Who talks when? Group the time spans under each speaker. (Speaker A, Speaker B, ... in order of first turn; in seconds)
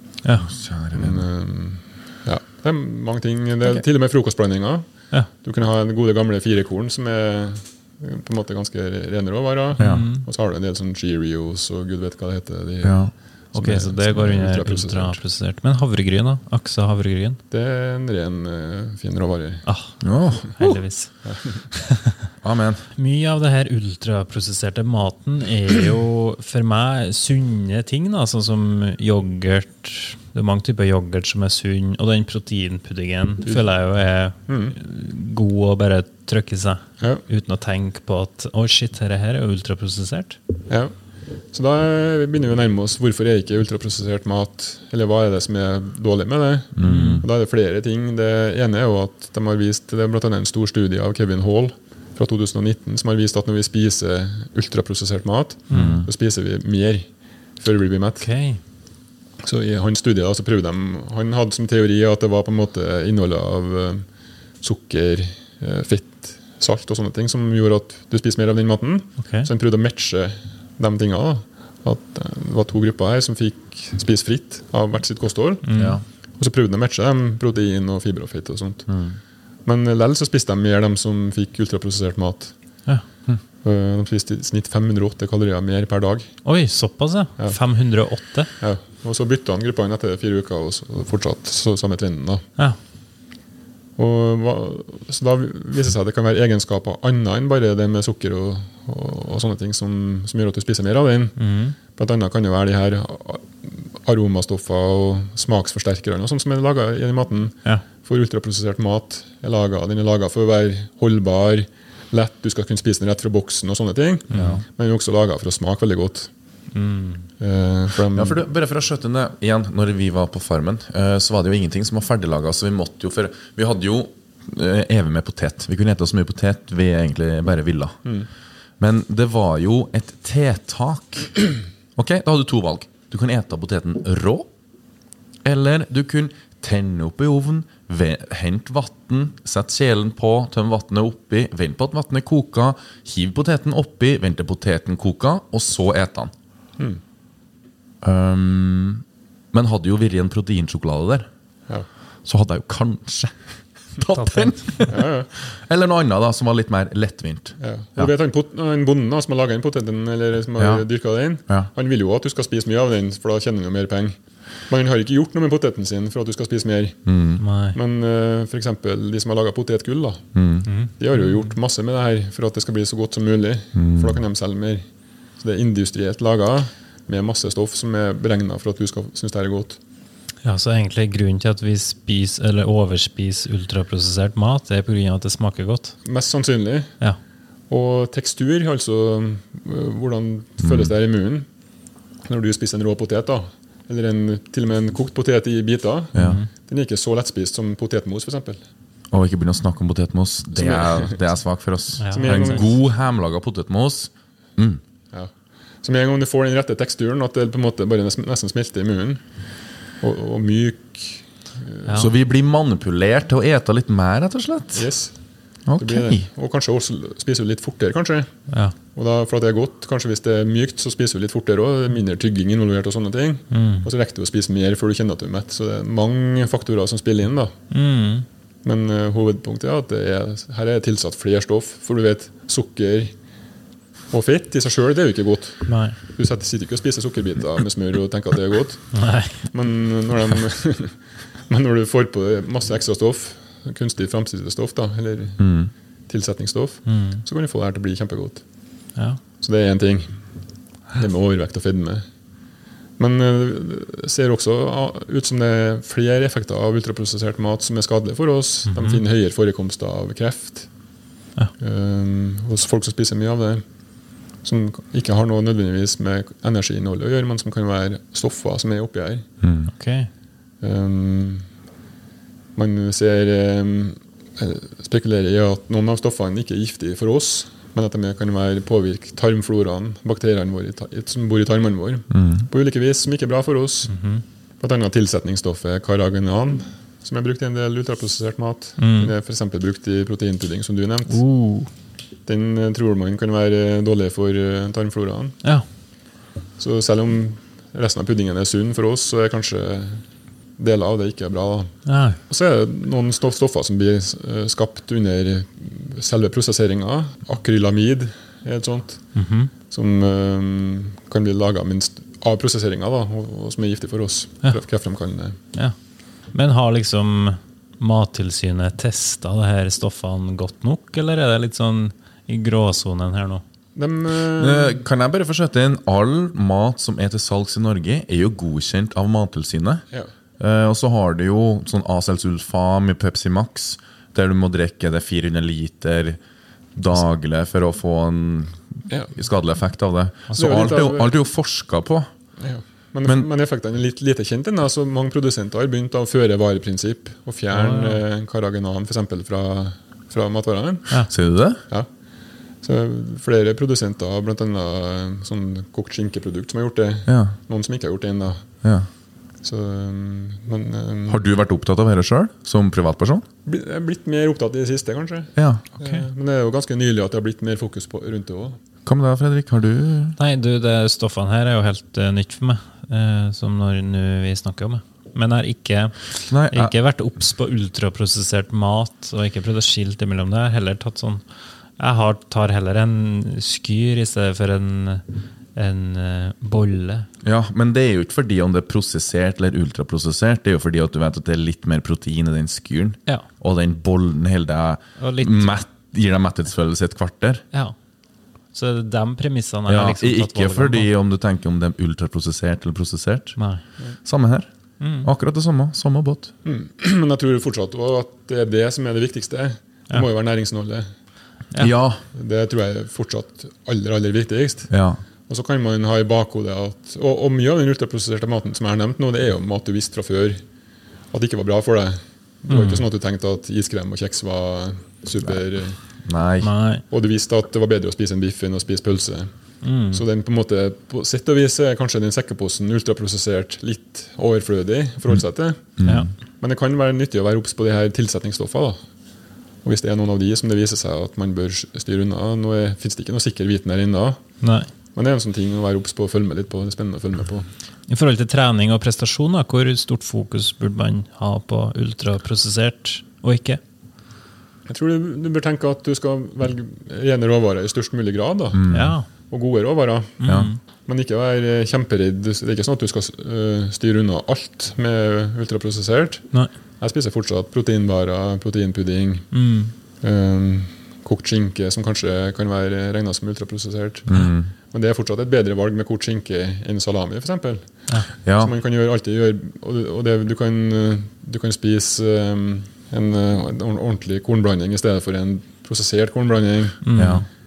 Speaker A: 0.2-0.5, 9.8-10.3, 13.5-17.4, 19.7-22.2, 23.0-40.4, 46.8-47.2, 55.7-56.0, 58.2-58.6, 69.2-69.5, 75.7-76.0, 86.5-88.5, 101.4-101.8, 116.7-117.3, 154.2-154.9, 167.4-167.8, 170.7-170.9, 180.4-186.0, 196.2-196.5, 202.0-202.6, 218.5-218.7, 223.5-223.9, 227.7-228.3, 235.7-236.0, 238.9-239.5, 246.9-247.2, 258.7-259.0, 269.7-270.1, 283.9-284.2, 288.8-289.1, 291.1-291.7, 301.9-302.2, 309.1-309.5, 316.3-323.4, 340.3-340.7, 347.5-348.0, 370.2-381.2, 381.8-385.0, 385.6-387.1, 395.0-395.5, 398.5-400.9, 403.4-403.6, 404.8-405.1, 422.5-422.9, 426.4-426.8, 429.6-430.0, 435.8-436.1, 444.4-444.7, 447.9-453.6, 458.7-459.1, 460.2-460.6, 469.3-469.7, 486.8-487.2
Speaker B: 0.4-1.2, 9.8-10.1, 12.8-13.1, 20.0-20.8, 22.4-22.9, 46.8-47.2, 55.7-56.1, 75.8-76.0, 78.9-79.2, 114.3-114.6, 118.1-128.0, 128.8-134.5, 135.4-146.3, 148.0-151.3, 152.2-158.1, 160.6-160.8, 167.1-167.4, 170.3-170.7, 173.7-174.2, 190.6-190.9, 196.1-196.4, 199.1-204.8, 211.9-214.9, 215.7-216.3, 245.4-245.7, 269.4-269.7, 282.1-282.5, 324.4-329.8, 330.4-336.2, 336.8-342.1, 351.1-351.6, 357.1-357.4, 358.6-358.9, 361.1-363.2, 365.4-365.6, 368.9-370.2, 376.3-376.7, 387.2-397.4, 399.7-403.4, 404.0-404.5, 405.0-406.3, 411.6-412.0, 414.7-415.0, 426.0-426.5, 435.8-436.1, 458.5-459.0, 460.2-460.5, 474.1-474.5, 478.2-478.5, 487.0-487.3
Speaker C: 0.9-15.2, 17.5-19.6, 21.2-21.6, 34.5-34.8, 37.0-37.2, 40.7-41.0, 41.5-58.3, 59.4-64.1, 64.6-78.9, 79.7-82.6, 83.6-86.4, 88.6-92.5, 94.0-116.3, 117.4-118.5, 154.9-155.3, 157.6-167.1, 167.7-170.3, 171.0-174.9, 175.4-179.8, 186.0-187.0, 187.7-191.5, 192.2-198.6, 200.5-201.3, 202.1-202.7, 205.1-209.3, 210.0-212.1, 214.7-215.2, 215.8-218.4, 218.9-227.6, 228.6-233.2, 234.1-245.5, 246.1-248.4, 249.4-250.2, 250.9-252.1, 253.0-260.7, 261.6-263.7, 264.4-269.3, 270.6-271.5, 272.6-283.9, 284.6-291.2, 292.3-295.4, 296.6-300.1, 300.6-301.7, 302.3-309.1, 309.7-315.4, 323.8-324.8, 340.4-341.1, 342.4-351.1, 352.6-358.5, 359.4-361.2, 363.4-368.6, 406.4-410.9, 412.1-414.7, 415.3-420.4, 421.1-425.8, 426.9-429.3, 429.9-438.8, 439.6-444.4, 444.9-447.5, 454.7-460.2, 460.9-466.3, 466.8-469.4, 470.0-486.9